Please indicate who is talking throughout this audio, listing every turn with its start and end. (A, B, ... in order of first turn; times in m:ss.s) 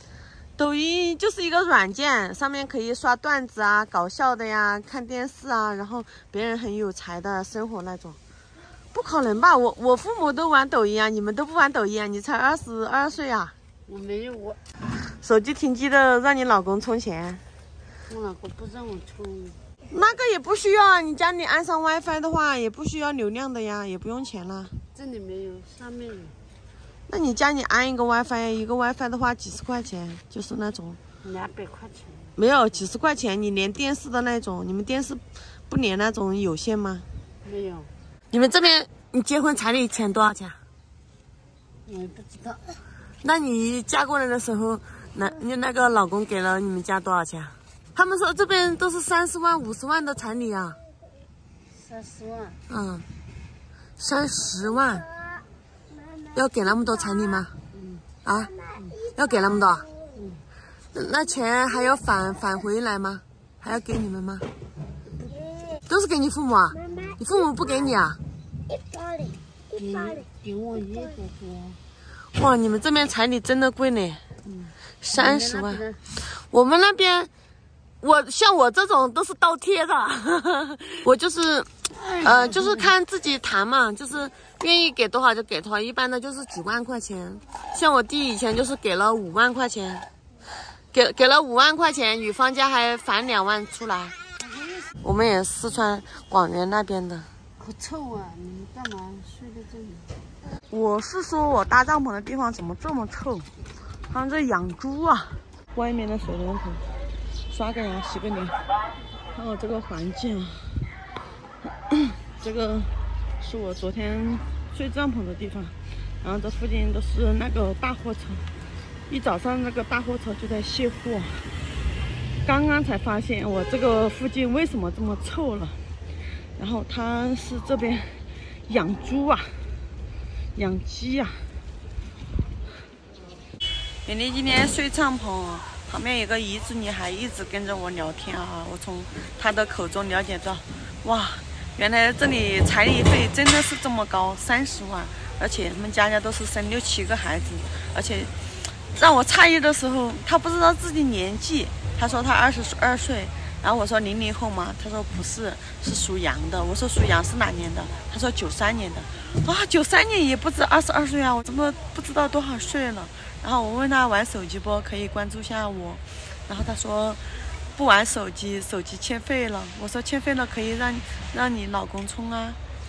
0:00.6-0:08.2 A
0:08.9-0:13.5 A
0:13.9-0:14.6 B
0:14.9-0:17.4 A
0:18.0-0:19.6 B
0:19.9-0:24.7 A
0:24.9-0:26.4 B
0:27.1-0:31.0 A
0:31.2-0:32.4 B
0:32.4-0:37.0 A
0:37.4-0:37.9 B
0:38.3-0:40.6 A
0:41.8-0:42.8 B
0:43.2-0:50.8 A
0:51.7-0:52.6 B
0:52.7-0:53.0 A
0:54.0-0:55.0 A
0:56.3-0:57.5 A
0:57.7-0:58.0 B
0:58.2-0:59.9 A
1:00.1-1:00.4 B
1:00.9-1:04.4 A
1:05.9-1:08.2 A
1:09.7-1:11.8 B
1:12.3-1:14.2 A
1:14.4-1:16.0 B
1:15.0-1:17.3 A
1:18.0-1:30.1 A
1:22.0-1:22.9 B
1:30.9-1:34.2 A
1:35.0-1:37.3 A
1:37.6-1:40.2 B
1:40.7-1:43.5 A
1:44.1-1:46.8 A
1:47.5-1:48.6 A
1:49.3-1:50.9 A
1:51.9-1:58.5 A
1:59.1-2:01.5 A
2:02.4-2:05.8 A
2:06.6-2:09.7 A
2:10.5-2:11.5 A
2:14.0-2:47.2 A
2:47.7-2:52.6 A